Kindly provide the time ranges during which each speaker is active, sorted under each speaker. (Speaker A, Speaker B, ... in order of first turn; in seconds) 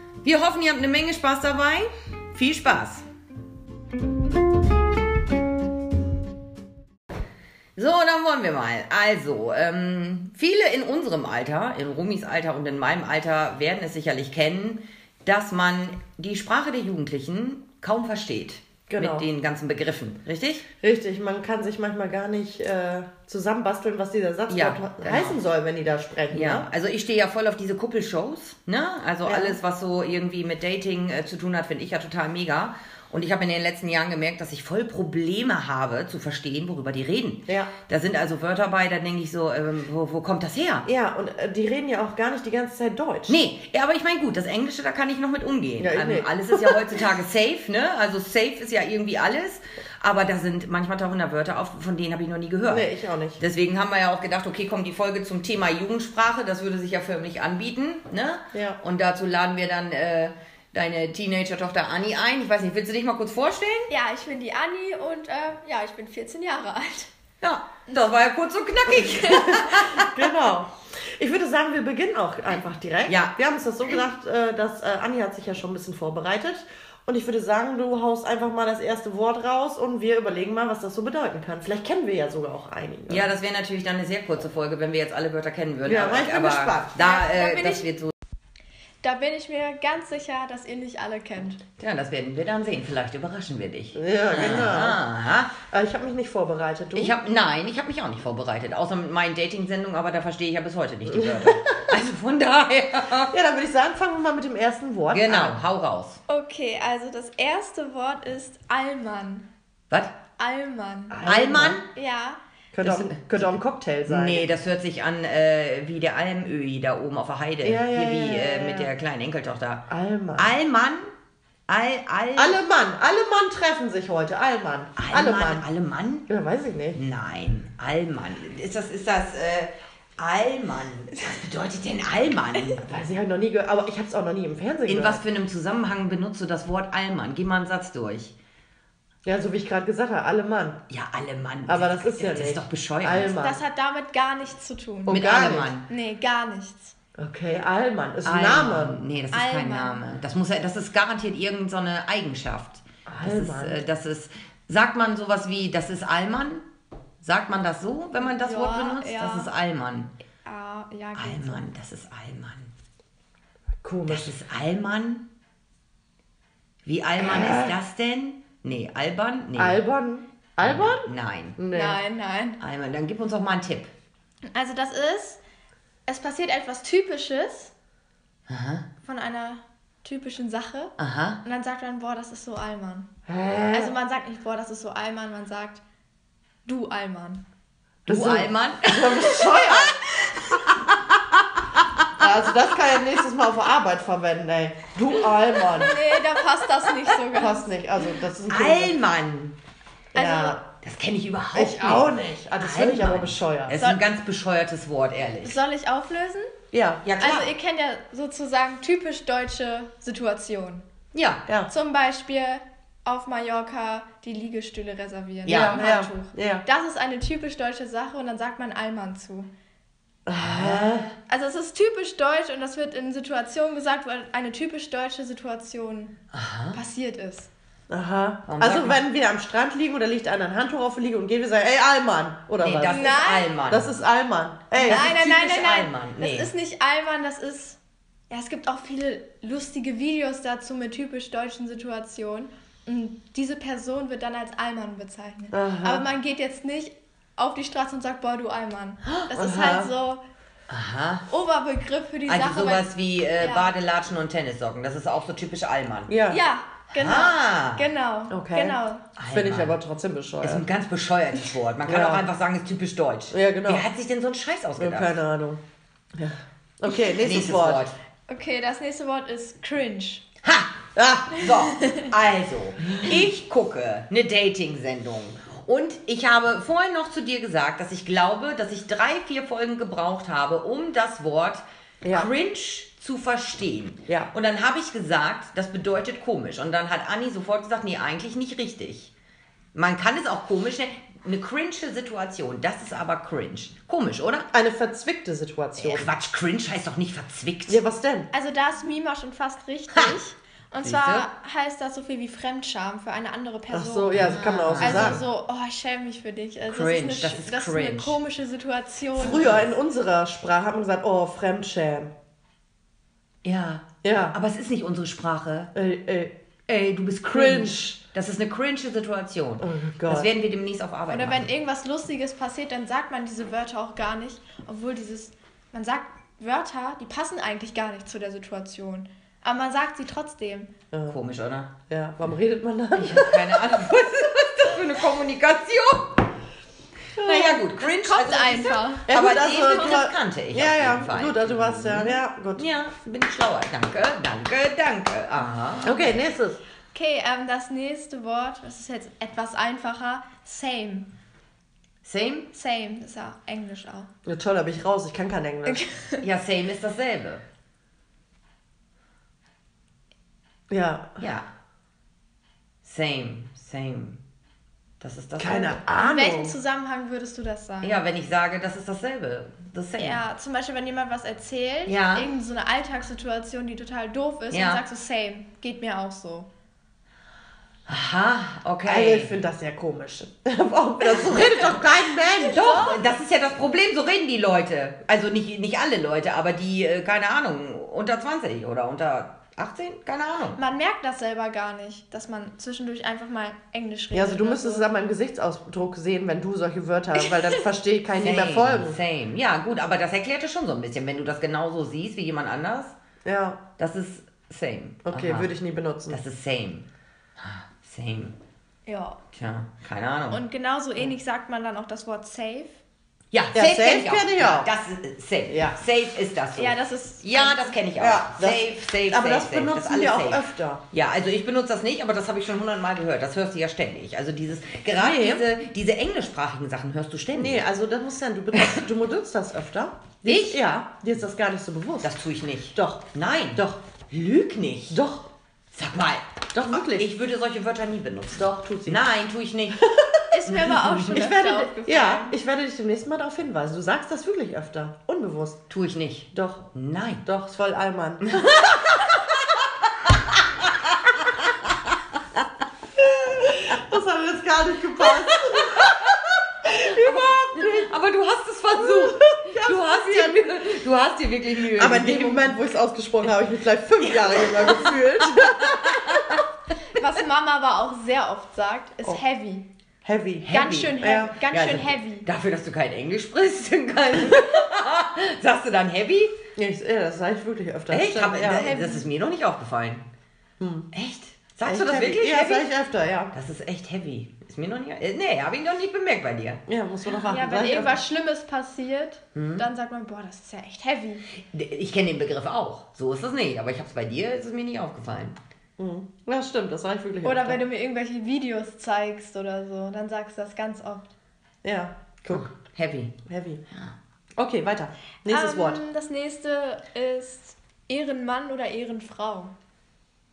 Speaker A: 0.2-3.0, 7.8-20.7, 24.5-25.4, 26.3-40.9, 43.3-63.9, 67.4-70.2, 73.1-73.4, 83.1-88.1, 91.8-95.5, 96.9-103.3, 105.1-106.2, 111.2-111.9, 112.8-113.5, 114.1-121.1, 121.7-122.6, 125.0-126.3, 127.0-133.0, 134.9-138.3, 140.9-143.3, 145.1-145.9, 148.2-156.7, 157.2-160.1, 161.2-162.7, 164.1-165.3, 166.8-169.8, 170.6-171.6, 172.6-173.9, 178.5-178.9, 181.0-181.4, 188.1-191.4, 198.2-199.6, 200.8-205.6, 207.0-207.5, 211.1-211.4, 215.4-215.8, 220.4-221.1, 226.3-226.8, 228.5-229.0, 232.6-233.9, 234.9-236.5, 250.7-251.2, 252.3-256.1, 257.0-257.8, 259.2-259.8, 260.4-265.2, 266.9-267.9, 270.4-289.1, 289.8-294.5, 295.8-297.8, 300.8-301.3, 304.1-305.2, 306.7-308.2, 309.2-309.6, 313.4-315.7, 316.7-321.5, 331.1-331.7, 333.0-336.3, 337.2-346.2, 352.0-352.5, 356.2-357.4, 361.2-361.5, 362.8-364.2, 365.0-365.8, 367.8-370.2, 371.9-372.3, 374.5-374.8, 377.9-379.4, 381.2-381.7, 382.5-390.6, 398.2-402.9, 403.8-405.5, 406.1-406.9, 407.4-408.4, 409.3-410.4, 413.3-427.6, 430.2-430.6, 432.0-435.0, 435.7-439.8, 440.4-441.2, 445.7-447.2, 448.3-449.6, 455.2-456.1, 456.7-462.6, 464.1-466.4, 470.4-476.3, 477.9-480.1, 480.9-482.7, 483.3-486.6, 489.4-489.6, 491.5-495.4, 502.3-503.1
Speaker B: 18.9-19.3, 20.8-26.7, 29.2-29.6, 40.9-43.4, 45.8-46.8, 52.7-53.4, 58.5-58.8, 69.2-83.3, 85.8-87.0, 94.0-95.0, 95.6-97.2, 103.3-105.6, 111.1-111.8, 112.7-114.5, 117.6-118.9, 119.9-120.5, 122.3-125.7, 126.3-127.0, 132.8-135.2, 139.2-140.8, 141.7-143.6, 145.1-145.7, 147.2-149.0, 153.1-153.8, 163.8-164.4, 167.2-167.8, 169.6-172.0, 183.3-183.9, 188.1-190.0, 192.2-196.0, 197.3-198.9, 200.1-200.6, 201.5-203.8, 206.7-207.0, 215.5-216.7, 220.3-221.1, 227.9-233.1, 233.7-235.1, 245.5-246.1, 249.3-249.9, 256.1-256.4, 258.3-260.7, 261.9-262.3, 263.3-263.9, 264.8-265.6, 266.2-267.9, 271.0-271.5, 282.0-282.3, 294.5-296.1, 297.7-298.3, 303.7-305.2, 309.2-312.1, 314.0-314.4, 315.8-316.3, 317.3-318.0, 319.6-320.3, 330.9-331.2, 331.9-333.7, 337.2-337.7, 339.1-342.6, 345.9-346.6, 354.3-355.8, 360.7-361.2, 365.4-366.6, 378.9-382.6, 394.1-399.0, 403.2-403.6, 405.1-406.2, 413.5-414.7, 415.5-415.8, 418.0-420.8, 425.0-425.5, 427.3-432.1, 432.8-433.8, 434.9-435.3, 436.5-437.1, 438.4-439.0, 439.8-440.2, 441.1-445.6, 446.3-446.7, 447.2-448.6, 453.0-455.9, 456.6-457.9, 458.8-460.6, 461.8-465.9, 470.0-471.4, 476.6-478.7, 480.6-480.9, 481.6-483.3, 486.7-488.0, 495.8-497.6, 501.6-502.5, 503.3-503.6, 504.4-505.8
Speaker C: 63.9-67.1, 69.0-69.5, 87.0-87.9, 89.0-91.6, 106.3-109.5, 110.4-111.2, 111.9-112.4, 143.2-145.2, 145.9-146.9, 149.3-150.1, 158.2-159.5, 160.4-161.7, 171.7-172.6, 174.5-175.4, 176.1-177.7, 179.0-183.1, 183.7-185.8, 186.7-187.4, 195.8-197.7, 200.2-200.6, 203.8-204.0, 205.4-206.5, 207.2-210.9, 211.7-219.5, 221.3-226.2, 226.7-227.5, 232.9-233.5, 234.7-237.8, 238.3-250.2, 251.3-253.7, 256.3-259.1, 268.3-270.2, 298.3-309.6, 321.1-330.7, 337.8-340.1, 346.9-351.1, 352.5-354.1, 355.7-356.2, 365.8-368.0, 370.0-376.5, 382.3-383.0, 390.6-394.9, 408.9-409.2, 410.3-412.8, 416.6-417.8, 440.3-442.4, 466.9-469.7, 470.5-472.3, 478.5-479.1, 487.1-491.2, 497.2-501.1, 505.3-509.5